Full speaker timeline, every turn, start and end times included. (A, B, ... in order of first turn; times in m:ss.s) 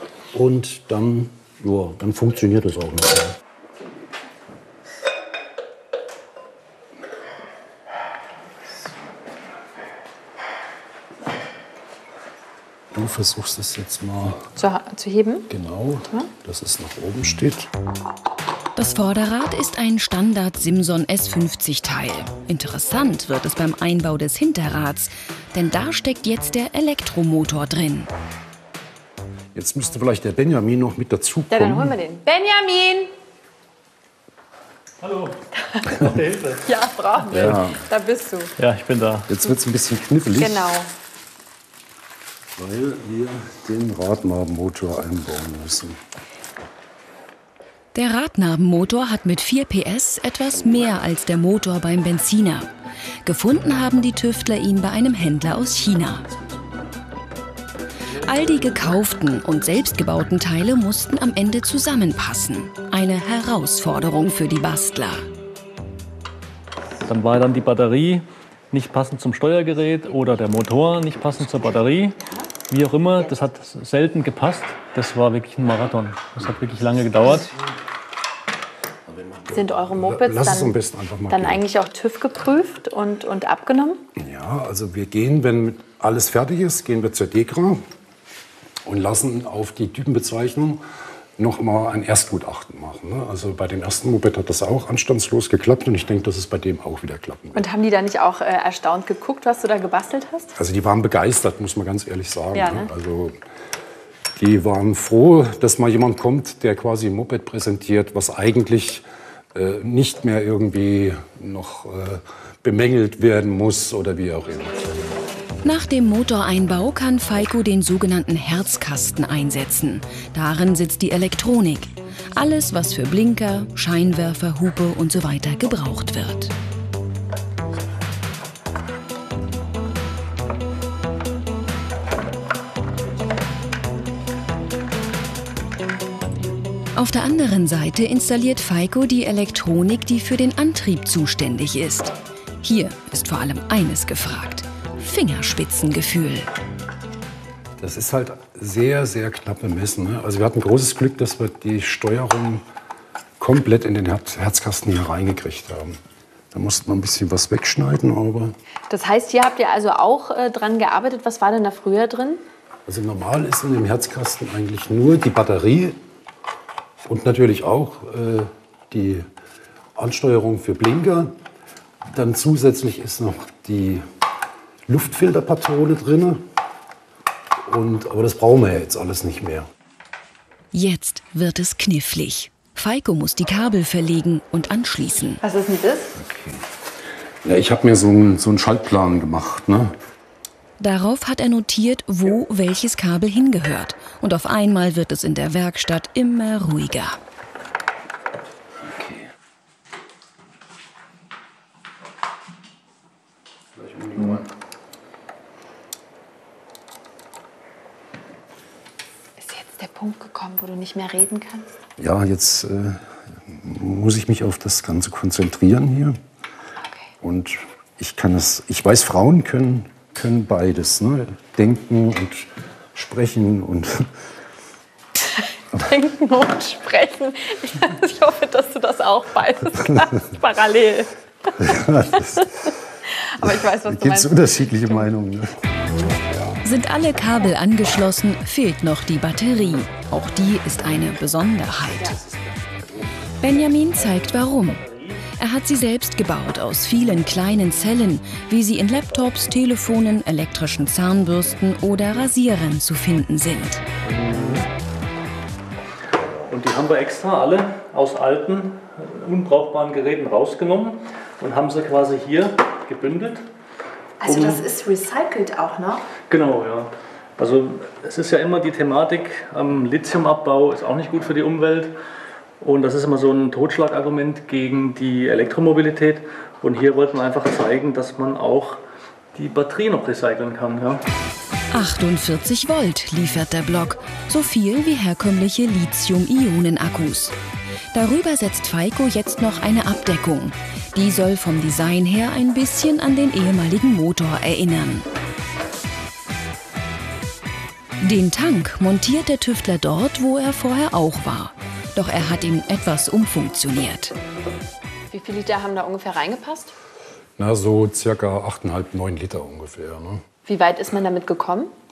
0:00.3-0:03.4 A
0:12.9-0:14.4 A
0:14.6-0:15.5 B
0:15.5-0:17.7 A
0:18.8-0:28.1 C
0:29.5-0:31.9 A
0:31.5-0:33.1 B
0:35.0-0:36.6 D
0:35.5-0:36.0 B
0:36.6-0:38.5 B
0:37.3-0:37.8 A
0:37.3-0:37.6 D
0:38.6-0:39.3 D
0:39.3-0:40.7 A
0:40.4-0:40.9 B
0:42.6-0:46.0 A
0:47.9-0:52.7 C
0:53.2-0:56.3 C
0:58.1-1:05.2 C
1:07.0-1:17.6 D
1:12.2-1:12.5 B
1:19.2-1:21.6 A
1:19.5-1:20.8 B
1:21.3-1:24.0 B
1:24.2-1:27.8 A
1:28.8-1:30.8 A
1:31.4-1:37.7 A
1:37.6-1:40.5 B
1:40.6-1:43.4 A
1:42.5-1:42.9 B
1:44.4-1:54.9 A
1:55.6-2:06.5 C
2:17.0-2:26.5 C
2:27.8-2:32.6 A
2:33.4-2:36.0 A
2:36.5-2:38.5 A
2:38.9-2:42.4 B
2:42.9-2:46.0 A
2:47.0-2:49.3 A
2:50.0-2:51.4 A
2:52.1-2:54.0 A
2:54.9-2:56.4 A
2:57.7-2:59.7 A
3:00.7-3:05.4 C
3:05.4-3:06.1 B
3:06.2-3:06.6 A
3:07.4-3:10.0 A
3:10.8-3:17.2 C
3:18.8-3:19.3 A
3:23.8-3:24.5 A
3:29.4-3:31.7 B
3:32.0-3:36.2 A
3:36.8-3:37.1 B
3:37.2-3:44.1 A
3:45.3-3:51.6 B
3:51.6-3:52.4 A
3:52.2-3:52.5 B
3:53.1-3:55.1 B
3:53.4-3:55.6 A
3:56.6-4:02.1 C
4:02.1-4:03.2 A
4:03.4-4:04.8 C
4:03.8-4:05.3 D
4:05.4-4:13.8 C
4:14.1-4:14.7 D
4:16.2-4:16.5 A
4:16.5-4:23.5 D
4:24.2-4:26.1 B
4:24.2-4:24.6 D
4:26.3-4:32.0 D
4:32.6-4:38.8 D
4:39.4-4:41.0 D
4:41.7-4:47.4 C
4:47.9-4:55.1 C
4:58.0-5:04.1 C
5:05.1-5:06.7 B
5:07.4-5:10.2 A
5:10.4-5:11.7 B